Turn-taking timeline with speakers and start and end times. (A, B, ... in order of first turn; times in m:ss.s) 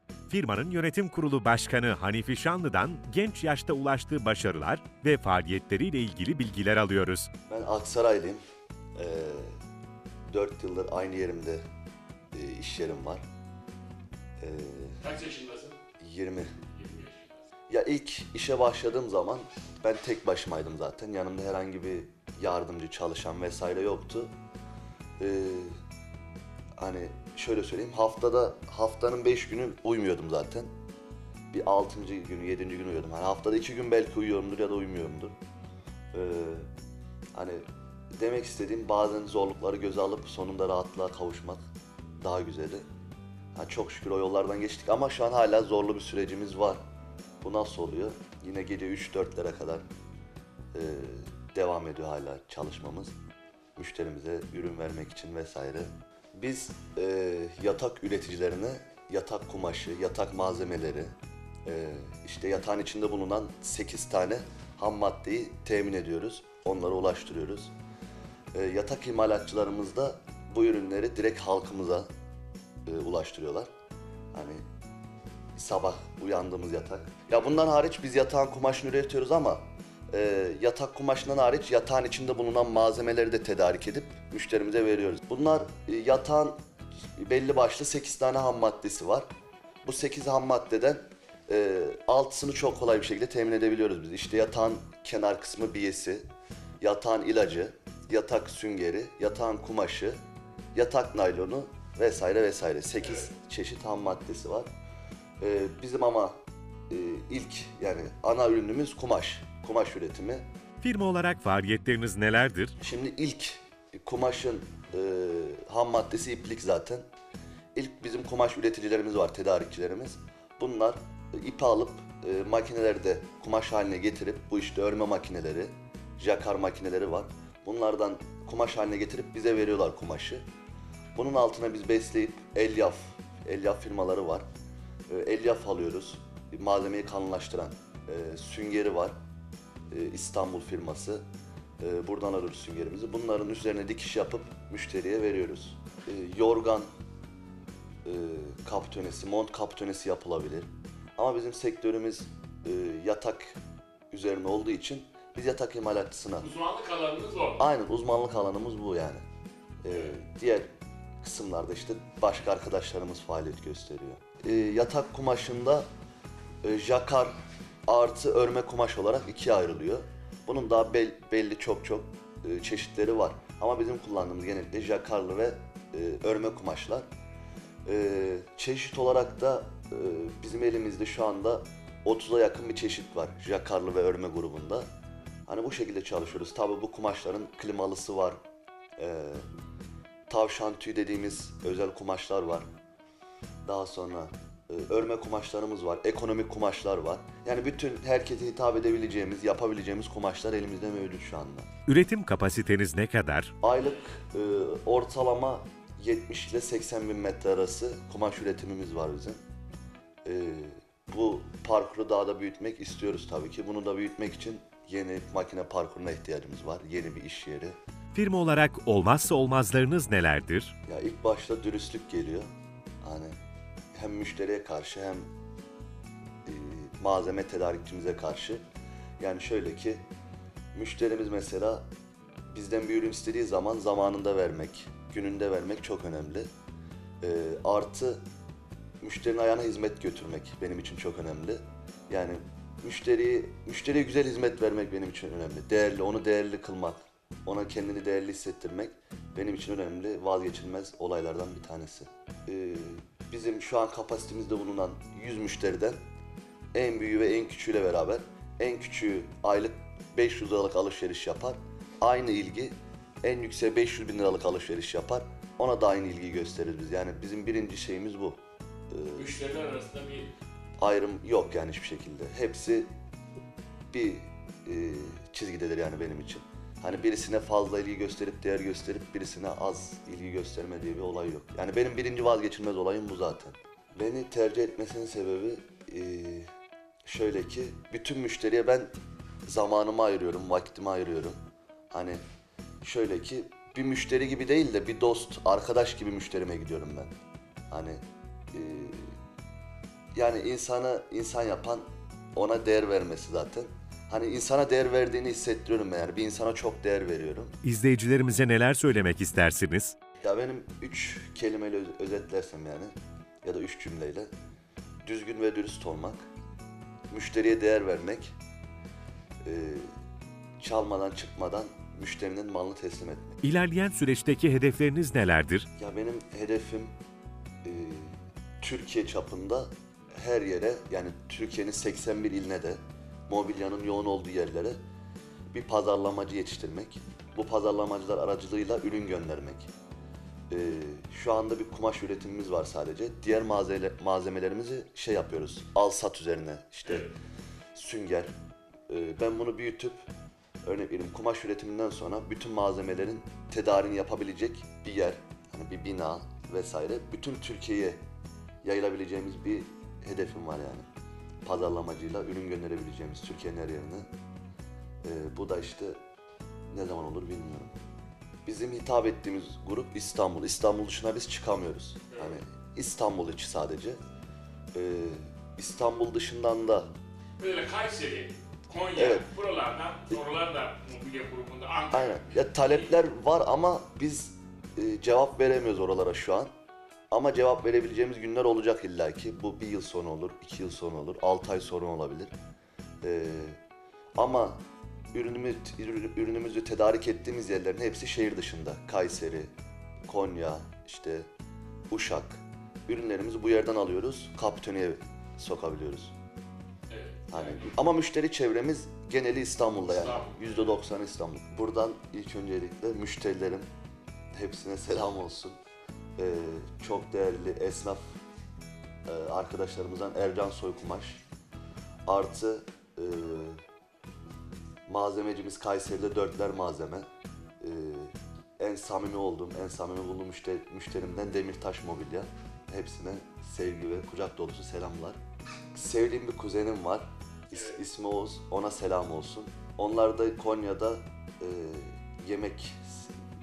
0:00.3-0:07.3 A
0:07.5-0:08.4 B
0:09.0-0:09.6 B
0:10.3-0:11.6 B
0:12.3-0:13.2 B
0:14.4-0:15.0 B
0:15.0-0:15.8 C
0:16.0-0:16.5 B
0:16.7-0:17.4 C
0:17.7-0:24.3 B
0:25.2-0:25.7 B
0:26.8-0:30.7 B
0:31.5-0:35.3 B
0:36.1-0:36.6 B
0:37.3-0:37.6 B
0:38.1-0:41.6 B
0:42.2-0:42.8 B
0:43.5-0:46.8 B
0:47.4-0:49.8 B
0:50.7-0:53.1 B
0:53.8-1:01.1 B
1:01.6-1:07.7 B
1:08.5-1:12.1 B
1:12.8-1:13.7 B
1:14.3-1:14.6 B
1:15.6-1:26.6 B
1:27.2-1:29.2 B
1:29.8-1:36.2 B
1:36.8-1:40.2 B
1:40.7-1:44.7 B
1:45.4-1:46.4 B
1:46.9-1:50.4 B
1:50.8-1:52.7 A
1:52.8-1:57.0 B
1:57.7-2:10.4 B
2:11.1-2:14.4 B
2:15.1-2:19.1 B
2:19.9-2:21.2 B
2:21.8-2:26.9 B
2:28.0-2:33.6 B
2:34.1-2:36.5 B
2:36.4-2:37.6 C
2:37.6-2:39.2 B
2:39.8-2:40.7 B
2:41.2-2:45.8 B
2:46.6-2:47.4 B
2:47.9-2:57.1 B
2:57.8-3:04.8 B
3:05.5-3:08.4 B
3:09.0-3:09.5 B
3:10.3-3:12.7 B
3:13.6-3:21.7 B
3:21.9-3:23.5 A
3:23.6-3:29.4 B
3:30.2-3:37.8 B
3:38.1-3:40.7 A
3:40.9-3:42.4 B
3:43.0-3:43.4 B
3:43.9-3:45.2 B
3:46.4-3:48.6 B
3:49.2-3:50.0 B
3:50.7-3:51.8 B
3:52.5-3:56.5 B
3:57.2-3:58.2 B
3:59.0-4:16.0 B
4:16.7-4:29.3 B
4:29.2-4:30.3 C
4:30.8-4:32.9 B
4:33.9-4:46.5 B
4:47.0-4:48.9 B
4:49.4-4:51.4 B
4:51.9-4:52.2 B
4:52.8-4:57.1 B
4:57.7-4:58.0 B
4:58.5-4:59.1 B
5:00.1-5:07.6 B
5:07.6-5:09.9 A
5:10.2-5:14.3 B
5:15.0-5:16.2 B
5:17.1-5:18.3 B
5:19.4-5:19.9 B
5:20.6-5:23.4 B
5:23.4-5:25.7 A
5:25.8-5:26.9 B
5:27.6-5:34.8 B
5:35.5-5:39.7 B
5:40.5-5:47.1 B
5:47.7-5:48.3 B
5:48.9-5:50.0 B
5:50.6-5:58.0 B
5:58.6-6:00.8 B
6:01.4-6:04.1 B
6:05.0-6:06.0 B
6:06.7-6:07.7 B
6:08.4-6:14.0 B
6:12.1-6:12.4 C
6:14.7-6:16.9 B
6:17.4-6:22.9 C
6:18.9-6:19.3 B
6:21.9-6:26.5 B
6:27.1-6:32.3 B
6:33.0-6:33.6 B
6:34.2-6:34.6 B
6:35.1-6:39.5 B
6:40.0-6:41.3 B
6:41.9-6:46.1 B
6:46.9-6:47.7 C
6:47.3-6:53.6 B
6:49.8-6:50.7 C
6:54.3-6:55.6 B
6:56.2-6:58.2 B
6:59.0-7:01.2 B
7:02.0-7:03.6 B
7:04.9-7:07.1 B
7:07.6-7:15.2 B
7:15.7-7:23.2 B
7:17.5-7:17.8 C